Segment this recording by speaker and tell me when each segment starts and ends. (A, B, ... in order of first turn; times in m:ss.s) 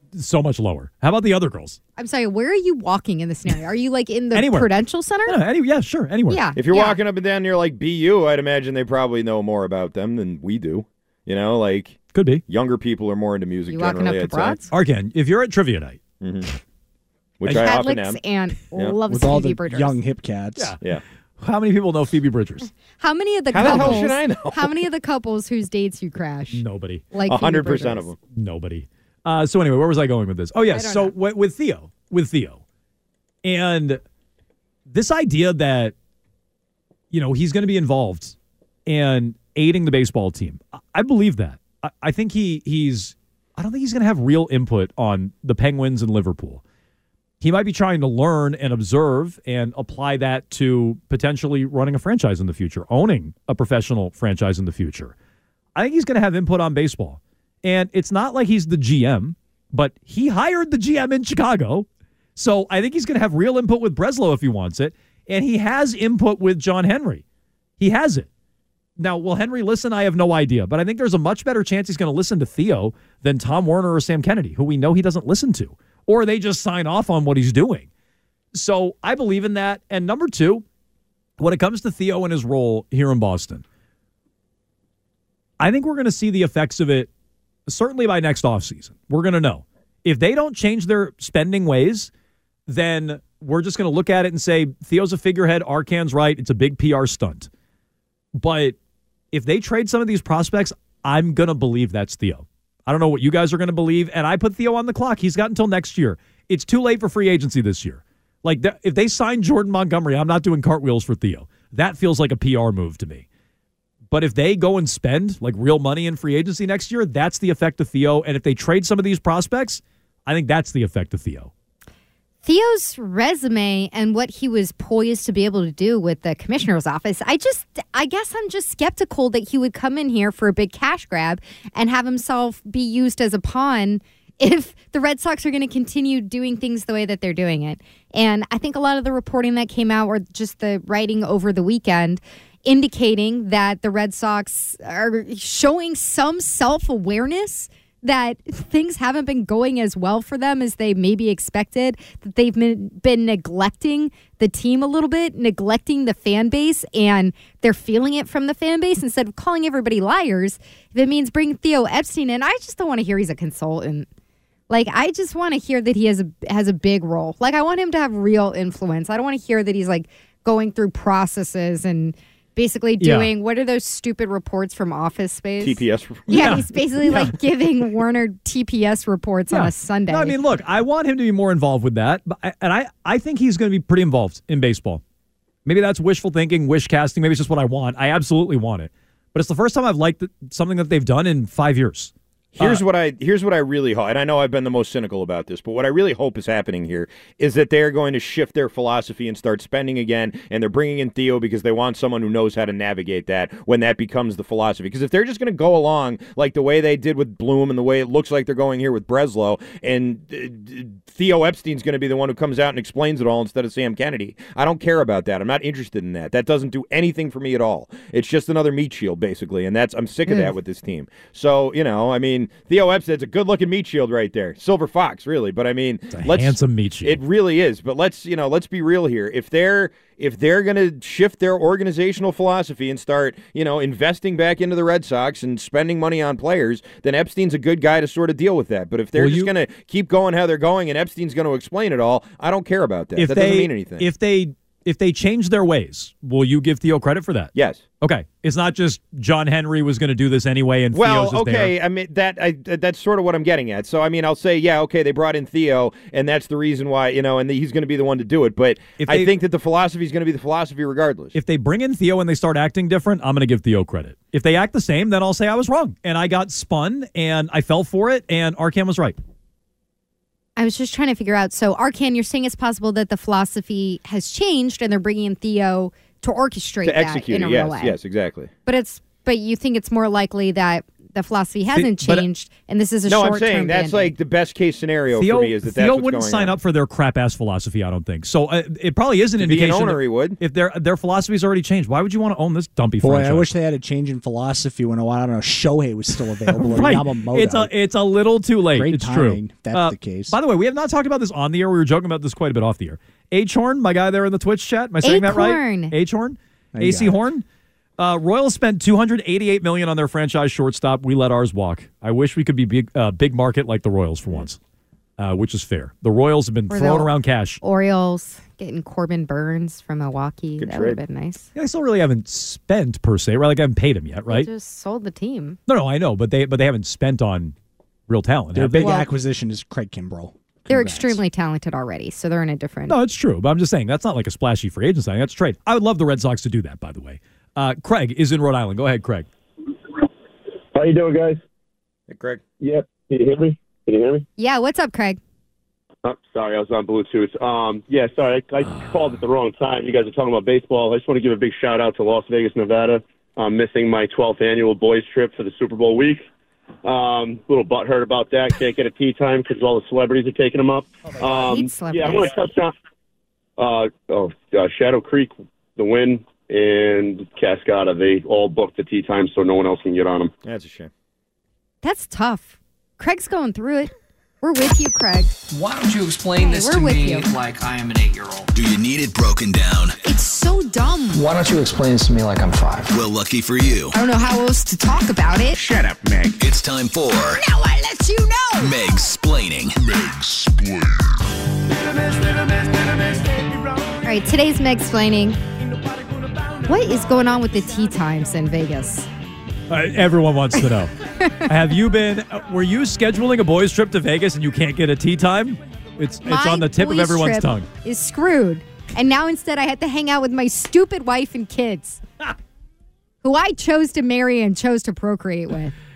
0:00.1-0:01.8 A
0:02.0-0:05.4 B
0:04.3-0:04.7 A
0:05.3-0:06.5 A
0:06.3-0:07.0 B
0:06.6-0:14.6 C
0:12.1-0:12.4 A
0:13.7-0:14.7 B
0:14.7-0:16.0 A
0:16.2-0:16.5 C
0:17.4-0:18.2 C
0:17.5-0:20.0 B
0:19.1-0:20.8 D
0:21.4-0:22.7 A
0:22.9-0:28.1 B
0:23.5-0:24.8 C
0:23.6-0:24.1 A
0:26.5-0:27.1 A
0:27.3-0:28.2 C
0:28.3-0:32.6 A
0:30.7-0:31.1 B
0:33.4-0:34.0 A
0:34.9-0:35.9 A
0:37.1-0:38.4 A
0:38.9-0:46.6 A
0:47.4-0:55.1 A
0:55.8-1:07.2 A
1:07.8-1:08.3 A
1:09.0-1:17.9 A
1:18.5-1:20.6 A
1:21.4-1:23.6 A
1:25.6-1:27.1 A
1:27.7-1:32.1 A
1:32.7-1:37.5 A
1:38.4-1:38.8 A
1:39.3-1:53.2 A
1:54.1-2:01.5 A
2:02.4-2:44.1 B
2:44.7-3:00.4 B
2:53.0-2:53.3 A
2:55.6-2:56.4 C
2:56.3-2:57.3 A
2:59.5-3:05.0 A
3:05.7-3:12.8 A
3:12.6-4:04.1 C
3:46.1-3:47.2 A
3:59.2-3:59.5 A
4:03.2-4:11.7 A
4:07.6-4:07.8 C
4:10.9-4:21.4 C
4:19.0-4:19.3 A
4:21.3-4:29.2 A
4:30.6-4:38.0 B
4:36.8-4:38.5 C
4:38.7-4:44.1 B
4:41.7-4:42.3 A
4:43.1-4:46.6 C
4:45.1-4:53.5 A
4:49.4-4:50.4 C
4:53.0-4:57.7 D
4:56.5-5:07.4 A
4:58.7-5:00.4 D
5:05.0-5:05.9 B
5:06.7-5:07.2 D
5:08.0-5:14.6 A
5:15.2-5:17.6 A
5:16.7-5:17.1 B
5:17.6-5:21.5 B
5:20.6-5:21.0 C
5:21.6-5:24.5 A
5:24.3-5:25.6 B
5:25.7-5:27.5 A
5:28.1-5:28.9 A
5:28.5-5:31.2 D
5:28.8-5:29.1 B
5:30.7-5:33.0 B
5:32.9-5:39.3 A
5:40.7-5:41.4 E
5:42.1-5:42.4 C
5:42.6-5:44.3 E
5:44.4-5:45.2 B
5:46.0-5:56.2 E
5:56.8-6:02.7 E
6:01.2-6:02.3 B
6:03.6-6:10.3 E
6:10.4-6:10.9 C
6:11.8-6:15.3 B
6:15.5-6:18.5 F
6:16.4-6:17.3 B
6:18.5-6:20.0 G
6:20.0-6:21.2 B
6:21.1-6:22.9 F
6:22.9-6:24.0 G
6:23.9-6:25.6 B
6:26.3-6:27.4 G
6:27.4-6:28.7 B
6:28.6-6:30.1 G
6:34.0-6:35.4 B
6:36.6-6:39.1 B
6:39.7-6:40.9 A
6:41.2-6:41.5 B
6:41.5-6:47.7 A
6:46.2-6:52.0 B
6:53.2-6:55.8 B